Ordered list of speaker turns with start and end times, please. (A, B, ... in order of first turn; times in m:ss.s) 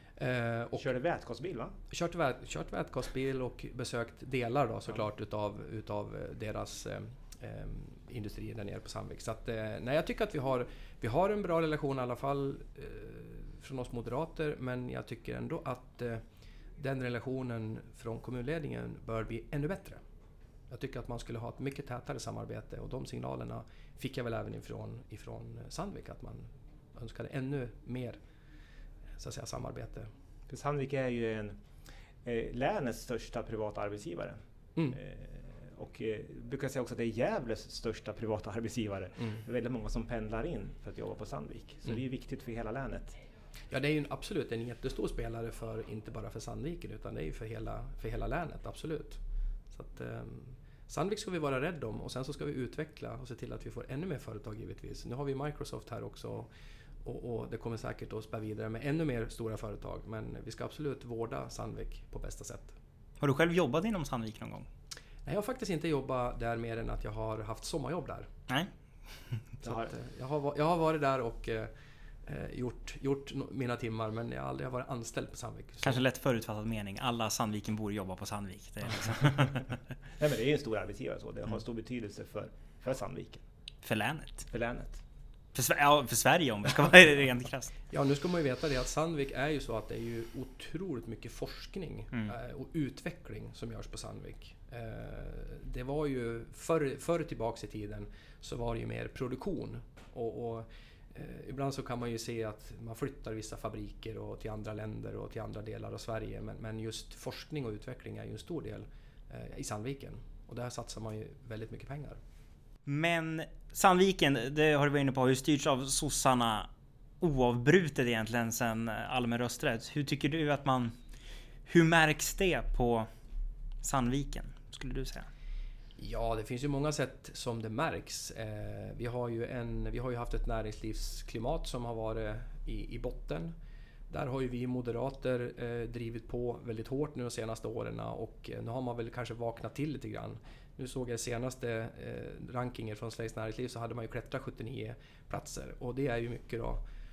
0:00.2-0:00.8 A
0:00.8-0:01.8 B
0:01.9-0:16.2 A
0:16.8-0:20.0 A
0:20.7-0:28.2 A
0:29.2-0:30.1 A
0:30.5-0:31.6 B
0:32.2-0:34.4 B
0:34.9-0:43.1 B
0:43.7-0:49.2 A
0:49.7-0:56.5 A
0:57.0-1:02.7 A
1:03.2-1:04.7 C
1:05.2-1:08.3 A
1:08.5-1:09.4 C
1:09.6-1:11.7 A
1:09.6-1:09.9 B
1:12.2-1:16.0 A
1:15.8-1:19.7 C
1:20.2-1:23.4 B
1:23.8-1:24.5 C
1:24.5-1:25.0 B
1:25.5-1:27.7 C
1:27.9-1:52.2 A
1:52.8-1:56.7 C
1:57.2-2:00.9 C
2:01.7-2:03.1 C
2:03.8-2:05.3 C
2:06.0-2:13.5 A
2:14.1-2:26.8 A